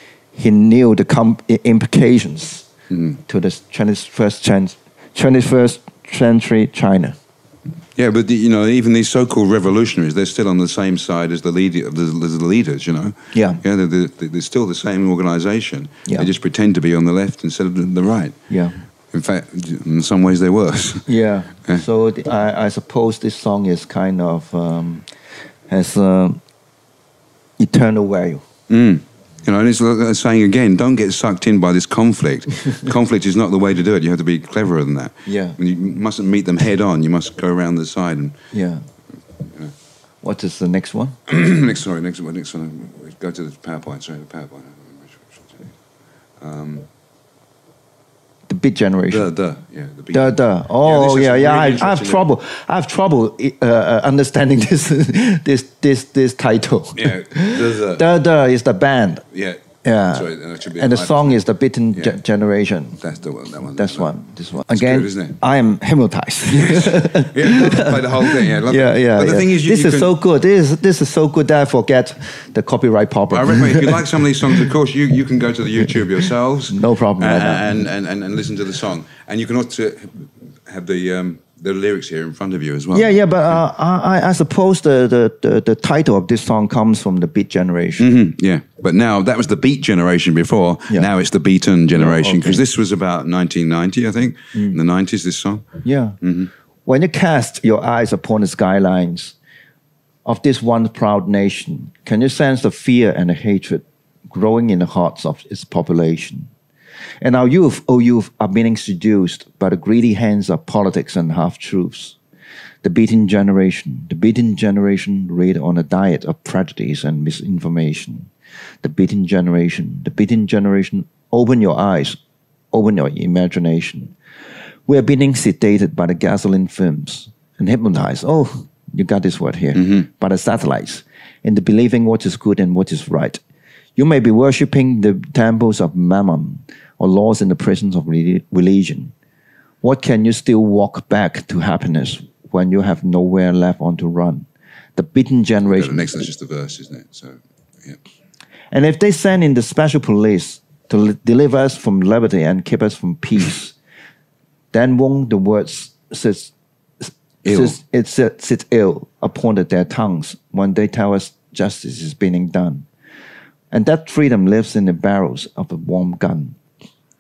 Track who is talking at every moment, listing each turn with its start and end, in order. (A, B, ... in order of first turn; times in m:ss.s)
0:00.3-0:02.7 A
0:02.9-0:03.2 B
0:03.2-0:07.2 A
0:08.0-0:18.4 B
0:13.3-0:13.6 A
0:18.5-0:18.8 A
0:19.1-0:21.1 B
0:21.1-0:25.1 A
0:25.7-0:26.4 A
0:27.6-0:28.5 A
0:28.7-0:38.4 B
0:35.3-0:35.6 A
0:38.5-0:38.9 A
0:39.4-0:39.7 B
0:40.2-0:41.2 A
0:41.3-0:45.7 B
0:46.4-0:46.9 B
0:48.5-0:49.3 A
0:49.1-0:52.3 B
0:50.1-0:59.2 A
0:57.0-0:58.1 B
0:59.3-1:01.4 B
0:59.8-1:03.0 A
1:03.0-1:04.1 B
1:03.8-1:14.7 A
1:04.7-1:05.4 B
1:06.5-1:10.1 B
1:13.3-1:23.1 B
1:16.7-1:17.7 A
1:22.9-1:28.1 A
1:28.0-1:35.7 B
1:32.0-1:32.6 A
1:34.5-1:34.8 A
1:35.8-1:36.2 A
1:36.2-1:36.5 B
1:36.9-1:39.4 A
1:40.3-1:46.5 A
1:47.2-1:52.2 A
1:52.8-1:58.3 A
1:58.8-2:02.2 A
2:02.7-2:04.2 A
2:04.9-2:13.4 A
2:09.8-2:10.0 B
2:14.0-2:19.1 A
2:19.8-2:26.0 A
2:25.7-2:28.0 B
2:28.7-2:33.8 A
2:34.7-2:42.9 A
2:37.4-2:37.8 B
2:43.7-2:46.6 A